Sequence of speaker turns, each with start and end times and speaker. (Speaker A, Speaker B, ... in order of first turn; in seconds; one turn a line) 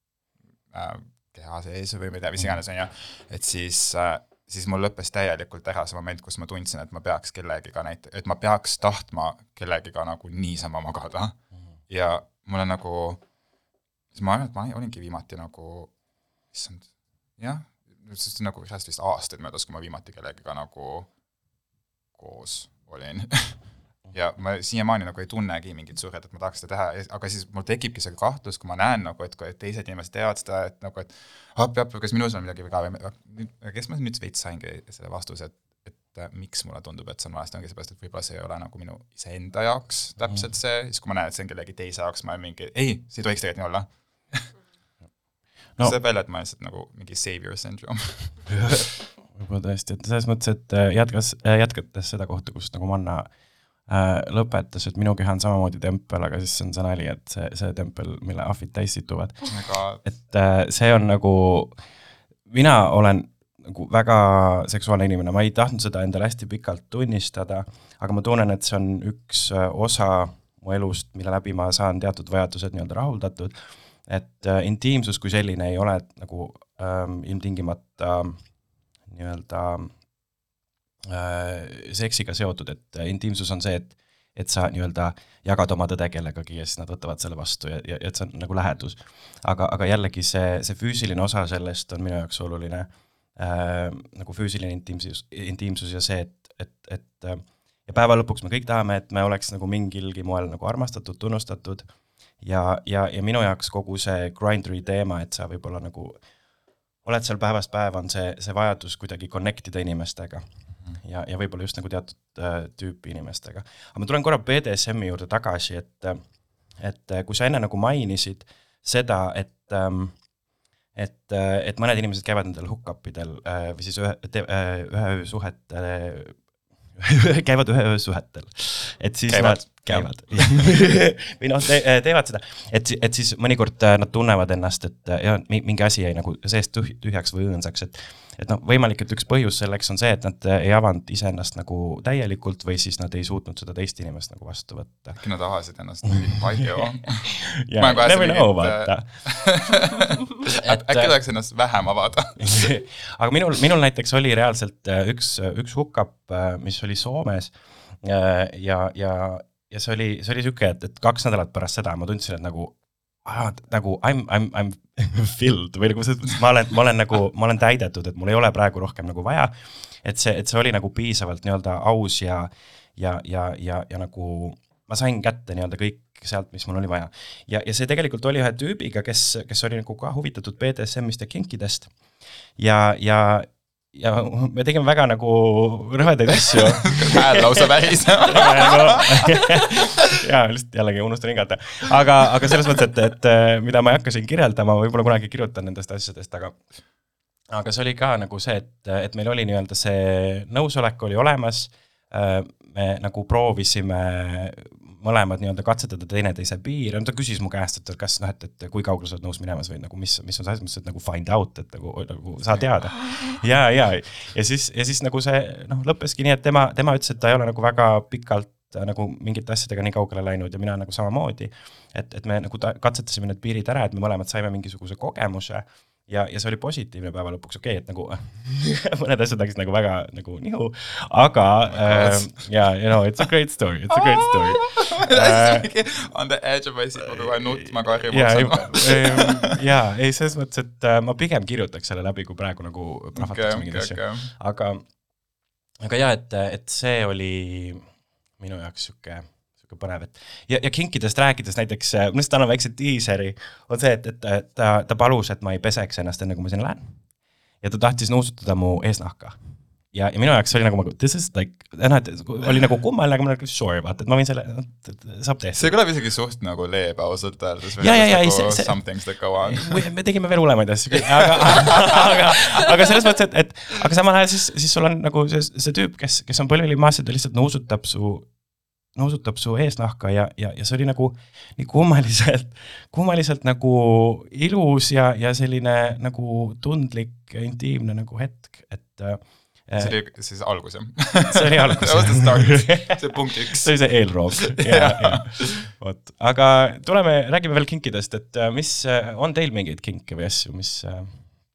Speaker A: 0.7-11.4
Speaker A: 11.9-13.2
Speaker A: 14.1-15.9
Speaker A: 16.5-21.1
Speaker A: 22.1-44.5
Speaker A: 45.8-48.7
Speaker B: 48.5-53.3
Speaker B: 53.8-59.5
Speaker A: 59.5-60.0
Speaker B: 60.0-61.8
Speaker B: 62.5-78.4
Speaker B: 79.1-79.9
Speaker B: 81.1-106.2
Speaker B: 107.0-116.2
Speaker B: 116.7-120.3
Speaker B: 120.9-126.5
Speaker B: 127.0-145.2
Speaker A: 129.3-130.9
Speaker A: 145.2-152.7
Speaker B: 146.1-149.2
Speaker B: 150.5-151.1
Speaker B: 152.4-181.9
Speaker B: 182.6-187.7
Speaker A: 186.4-189.2
Speaker B: 188.3-196.6
Speaker B: 197.5-235.7
Speaker A: 212.5-213.2
Speaker A: 231.7-232.4
Speaker A: 233.9-239.5
Speaker B: 237.0-244.8
Speaker A: 243.1-244.3
Speaker B: 245.8-247.8
Speaker B: 248.4-257.0
Speaker B: 257.6-265.7
Speaker A: 265.6-269.9
Speaker B: 267.8-289.9
Speaker A: 271.0-272.0
Speaker A: 289.8-295.7
Speaker B: 291.3-301.3